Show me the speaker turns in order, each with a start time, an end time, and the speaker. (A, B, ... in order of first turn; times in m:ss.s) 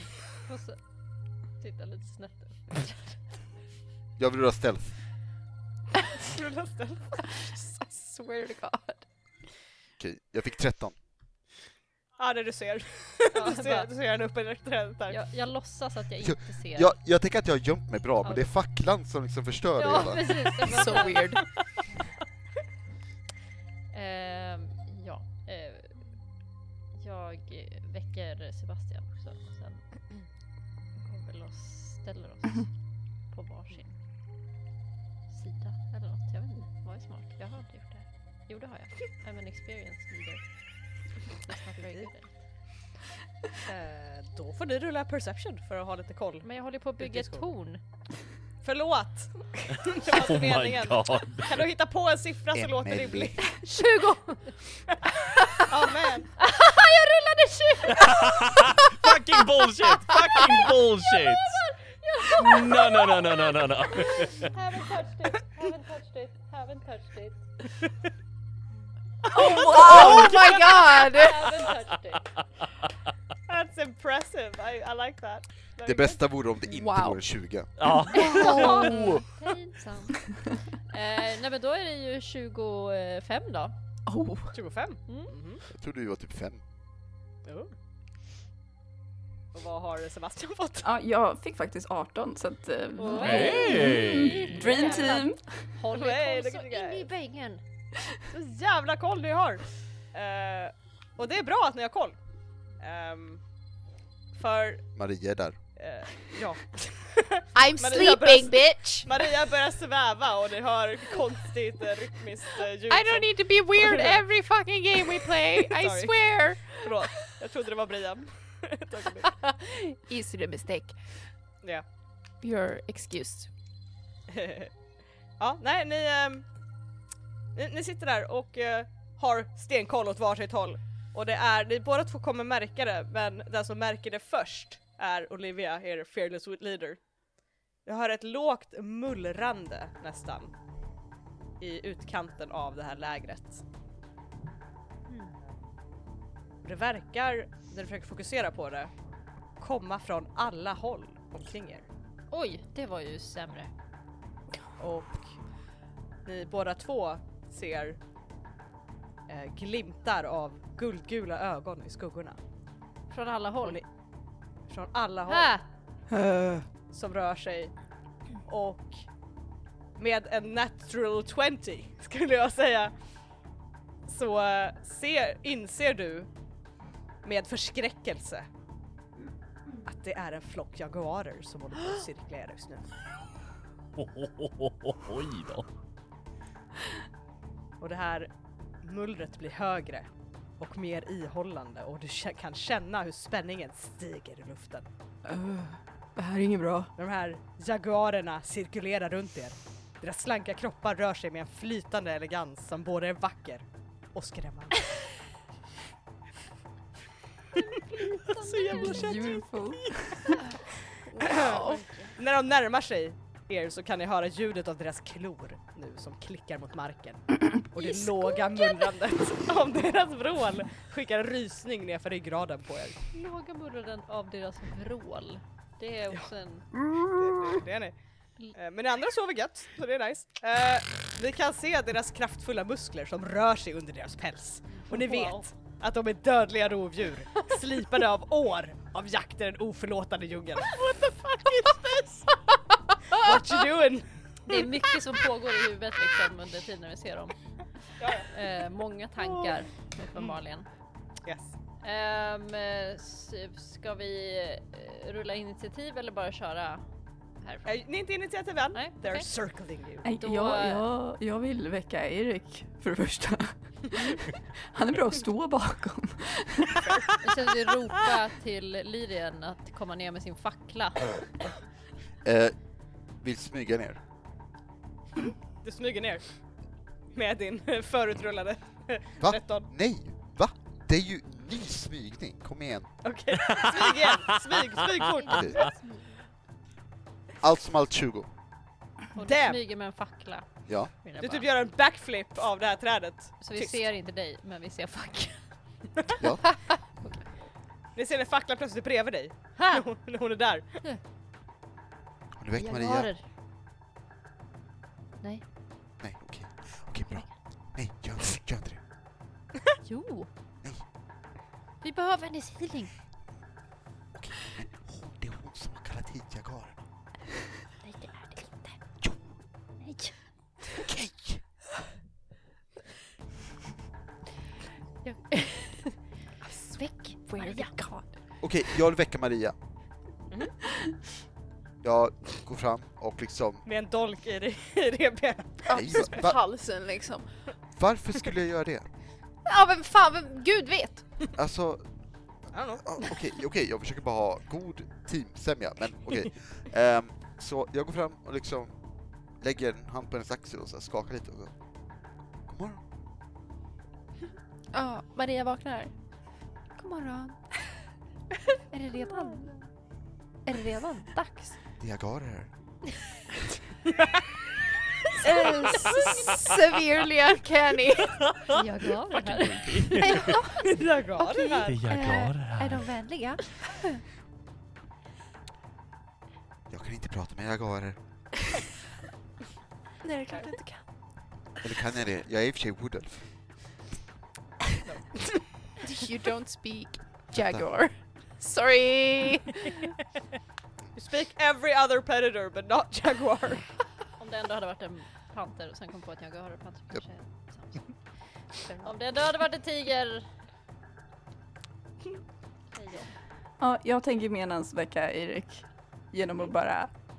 0:00.4-0:00.8 A
0:01.6-0:03.2 A
0:04.2-0:04.9 B
0:06.2-0:07.2 C
0:07.2-0:09.0 D
0:10.0-0:10.9 B
0:12.2-0:15.2 C
0:13.3-0:13.9 A
0:15.1-0:16.9 A
0:16.2-0:20.5 B
0:18.2-0:18.5 A
0:19.8-0:21.4 A
0:20.6-0:21.4 D
0:23.9-0:26.0 A
0:26.9-0:30.0 A
0:31.0-0:32.7 A
0:33.3-0:34.0 A
0:35.3-0:40.4 A
0:41.4-0:42.3 A
0:43.6-0:47.5 C
0:46.4-0:47.8 A
0:48.6-0:53.5 C
0:50.0-0:51.6 E
0:52.5-0:53.4 B
0:53.6-0:54.6 A
0:55.6-0:56.3 C
0:56.4-0:58.6 A
0:57.9-1:01.5 E
1:01.3-1:03.3 A
1:02.4-1:04.5 E
1:03.9-1:07.4 A
1:09.3-1:11.6 D
1:09.3-1:10.6 C
1:09.4-1:10.4 A
1:11.0-1:12.3 A
1:13.5-1:16.2 C
1:15.8-1:17.7 B
1:16.7-1:17.2 D
1:17.8-1:19.2 E
1:18.1-1:20.2 A
1:18.3-1:18.8 D
1:18.6-1:18.9 C
1:20.9-1:23.8 A
1:24.0-1:24.5 F
1:24.5-1:25.6 C
1:25.1-1:25.3 A
1:25.7-1:26.6 B
1:27.4-1:27.7 C
1:29.5-1:30.9 C
1:30.8-1:35.5 F
1:33.0-1:37.6 A
1:33.1-1:33.5 C
1:33.2-1:34.3 E
1:34.7-1:35.2 C
1:35.9-1:37.1 C
1:38.3-1:42.2 C
1:42.8-1:43.4 C
1:44.3-1:44.8 C
1:45.0-1:45.6 B
1:45.8-1:54.2 C
1:47.5-1:49.1 D
1:52.9-1:56.9 D
1:55.1-1:59.3 C
1:59.3-2:00.9 D
2:02.4-2:03.5 D
2:04.3-2:04.7 C
2:05.4-2:06.4 C
2:07.5-2:17.0 C
2:17.8-2:20.5 C
2:21.6-2:23.6 C
2:25.1-2:25.3 A
2:26.6-2:28.9 C
2:29.6-2:31.8 C
2:32.3-2:33.7 A
2:34.8-2:35.3 C
2:36.2-2:38.0 C
2:39.3-2:42.4 C
2:43.1-2:43.8 A
2:44.7-2:45.5 C
2:45.3-2:45.6 A
2:46.1-2:46.6 F
2:46.9-2:47.7 C
2:48.4-2:49.0 C
2:50.0-2:52.9 C
2:54.1-2:56.3 C
2:57.2-2:58.5 C
2:59.8-3:02.9 C
3:04.0-3:05.6 E
3:07.8-3:08.3 C
3:08.8-3:10.1 C
3:10.6-3:14.8 C
3:15.2-3:16.9 F
3:17.0-3:24.9 C
3:27.6-3:29.4 A
3:28.3-3:29.9 C
3:28.7-3:30.4 F
3:31.1-3:32.1 D
3:31.2-3:43.0 C
3:37.8-3:38.8 A
3:43.1-3:46.7 A
3:47.1-3:47.9 C
3:48.5-4:02.2 C
3:54.8-3:55.4 A
4:03.1-4:04.1 C
4:04.4-4:07.3 A
4:08.0-4:08.3 C
4:08.3-4:10.7 A
4:11.2-4:11.5 C
4:11.8-4:16.8 A
4:17.4-4:17.8 A
4:17.6-4:20.1 C
4:18.7-4:19.3 A
4:20.0-4:27.0 F
4:20.2-4:20.8 A
4:27.2-4:31.1 A
4:32.2-4:32.6 B
4:33.2-4:34.0 B
4:35.6-4:36.3 C
4:37.1-4:39.7 C
4:39.2-4:42.9 B
4:43.0-4:45.7 C
4:43.5-4:44.4 E
4:45.3-4:45.6 B
4:45.5-4:46.0 A
4:47.4-4:48.3 B
4:49.1-4:51.5 A
4:49.2-4:49.6 C
4:51.2-4:53.8 C
4:53.4-4:55.6 A
4:56.2-4:56.7 B
4:57.0-4:57.3 A
4:57.9-5:00.8 C
4:59.6-4:59.8 A
5:02.4-5:03.1 B
5:02.5-5:03.2 A
5:06.0-5:08.8 B
5:09.8-5:10.3 A
5:11.8-5:12.9 A
5:14.1-5:16.8 B
5:17.8-5:18.8 A
5:19.8-5:20.2 A
5:20.8-5:21.4 B
5:25.0-5:26.0 A
5:26.4-5:28.2 D
5:27.4-5:27.7 A
5:28.4-5:29.5 B
5:31.8-5:33.6 B
5:33.6-5:36.1 C
5:35.6-5:37.3 D
5:35.7-5:36.4 B
5:37.8-5:38.9 B
5:39.4-5:41.3 D
5:41.4-5:41.8 B
5:42.5-5:43.2 C
5:42.8-5:48.7 B
5:49.4-5:51.5 B
5:52.5-5:52.8 B
5:54.7-5:55.9 D
5:56.8-5:57.7 D
5:58.7-5:59.6 D
5:59.1-5:59.6 A
6:00.4-6:01.6 D
6:01.8-6:02.5 B
6:05.2-6:08.2 D
6:08.5-6:10.1 A
6:09.1-6:10.4 E
6:10.0-6:14.0 D
6:10.6-6:11.8 C
6:11.7-6:12.9 E
6:16.7-6:18.0 B
6:20.0-6:20.9 D
6:21.6-6:23.2 B
6:25.8-6:29.9 D
6:27.3-6:27.6 B
6:30.9-6:33.6 C
6:34.2-6:38.0 A
6:38.7-6:40.2 A
6:42.7-6:43.1 A
6:43.6-6:46.9 F